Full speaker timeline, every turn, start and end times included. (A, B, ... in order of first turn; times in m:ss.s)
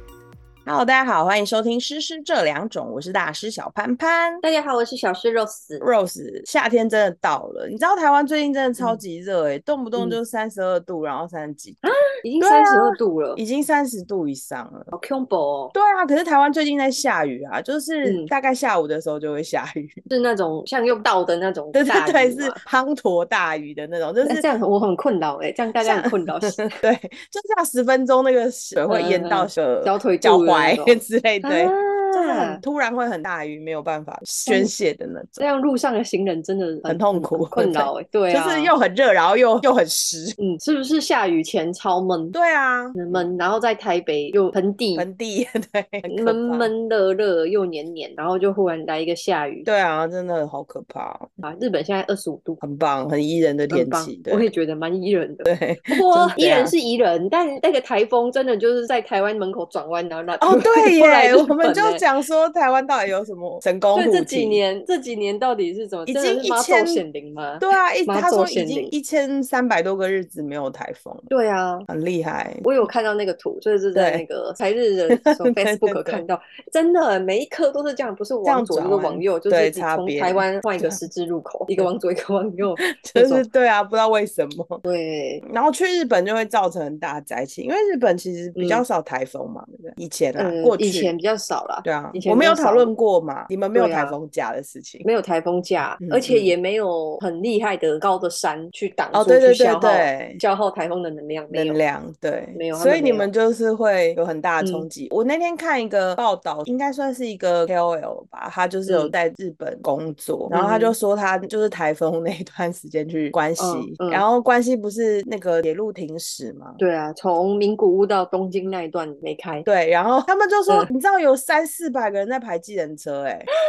0:00.7-0:04.4 A
0:04.4-0:05.9 B
0:05.8-0:11.9 A
0:11.8-0:13.4 B
0:12.4-0:14.9 A
0:14.9-0:15.8 B
0:15.7-0:20.0 A
0:18.0-0:18.3 B
0:20.1-0:22.6 B
0:21.7-0:24.5 A
0:24.2-0:26.8 B
0:25.8-0:35.4 A
0:28.9-0:32.6 B
0:35.4-0:38.7 B
0:36.9-0:40.4 A
0:40.4-0:42.4 B
0:42.3-0:43.3 A
0:43.0-0:45.1 B
0:45.0-0:46.7 A
0:46.1-0:49.7 B
0:49.7-0:51.4 A
0:51.4-0:52.6 B
0:52.6-0:54.5 A
0:53.7-1:02.0 B
0:55.4-0:56.7 A
1:00.4-1:04.6 A
1:03.9-1:09.0 B
1:06.1-1:07.0 A
1:07.6-1:11.3 A
1:11.3-1:11.9 B
1:11.9-1:12.7 A
1:12.6-1:23.5 B
1:14.0-1:14.2 A
1:15.1-1:16.2 A
1:18.4-1:21.0 A
1:22.8-1:24.8 A
1:24.8-1:25.4 B
1:25.4-1:31.1 A
1:28.6-1:28.8 B
1:30.4-1:32.9 B
1:31.8-1:35.1 A
1:33.7-1:34.2 B
1:35.0-1:41.8 B
1:36.0-1:36.5 A
1:39.1-1:40.4 A
1:41.5-1:56.8 A
1:42.6-1:43.3 B
1:44.6-1:44.9 B
1:48.9-1:49.1 B
1:50.5-1:51.0 B
1:53.6-1:54.2 B
1:56.8-1:59.7 B
1:59.7-2:03.5 A